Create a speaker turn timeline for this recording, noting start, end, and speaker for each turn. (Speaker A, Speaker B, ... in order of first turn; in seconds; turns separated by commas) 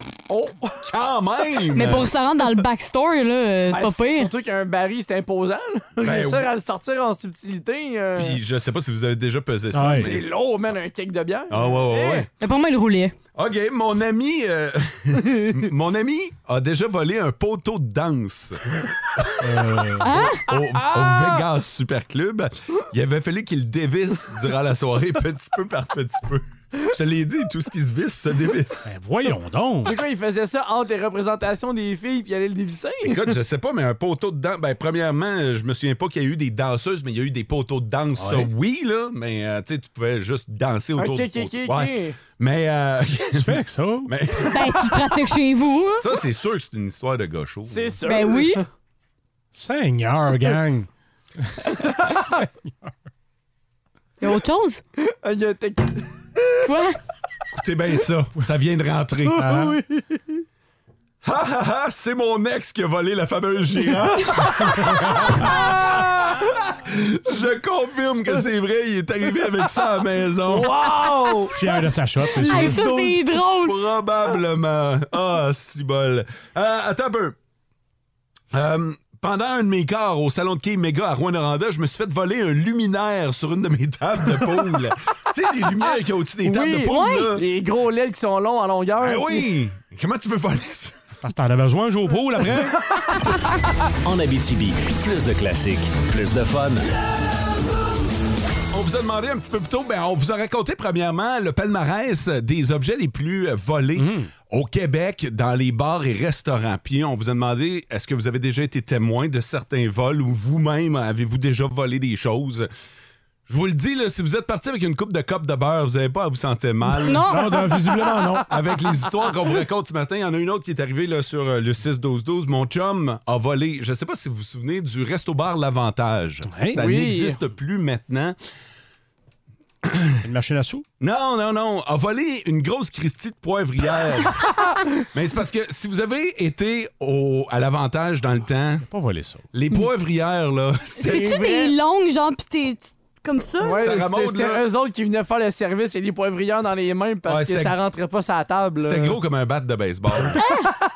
Speaker A: 0.3-0.8, Speaker B: 0.8-2.1, Speaker C: 1.7-4.3, Speaker A: 3.7-8.4, Speaker B: 6.0-6.5, Speaker B: 8.2-10.4, Speaker D: 9.7-10.1, Speaker A: 9.8-12.3, Speaker B: 11.5-12.3, Speaker C: 12.4-13.1, Speaker B: 13.3-28.9, Speaker D: 19.4-20.1, Speaker C: 20.0-20.4, Speaker A: 20.8-21.4, Speaker D: 28.9-29.9, Speaker A: 29.8-33.3, Speaker B: 33.0-43.5, Speaker D: 38.2-38.5, Speaker A: 41.0-42.2, Speaker D: 43.3-44.1, Speaker B: 44.0-45.0, Speaker C: 44.5-46.0, Speaker B: 45.9-48.0, Speaker A: 47.6-48.6, Speaker C: 48.0-48.6, Speaker D: 49.5-50.9, Speaker D: 51.4-52.9, Speaker C: 54.2-54.8, Speaker A: 55.1-56.4, Speaker C: 56.6-57.0, Speaker B: 57.5-59.5, Speaker D: 59.4-59.8, Speaker A: 59.4-60.4, Speaker B: 61.2-70.9, Speaker A: 70.5-71.5, Speaker D: 71.5-72.9, Speaker A: 72.4-73.2, Speaker C: 72.4-73.8, Speaker B: 72.4-77.3, Speaker B: 78.5-87.4, Speaker A: 86.4-89.5, Speaker C: 86.8-87.3, Speaker B: 89.0-91.0, Speaker D: 91.2-92.7, Speaker E: 94.0-96.8, Speaker B: 98.7-112.7, Speaker D: 104.0-104.3, Speaker B: 113.5-117.3, Speaker C: 116.9-117.7, Speaker D: 117.2-118.5, Speaker B: 118.5-128.3, Speaker D: 126.5-126.8, Speaker A: 126.8-127.4, Speaker B: 129.8-130.1, Speaker D: 130.2-130.8, Speaker B: 131.0-134.5, Speaker B: 135.1-138.8, Speaker D: 138.9-139.4, Speaker B: 139.5-141.5, Speaker C: 141.0-143.8, Speaker A: 141.1-141.7, Speaker A: 143.6-149.2, Speaker B: 143.7-144.6, Speaker B: 147.2-147.8, Speaker B: 148.8-150.4, Speaker C: 150.3-150.7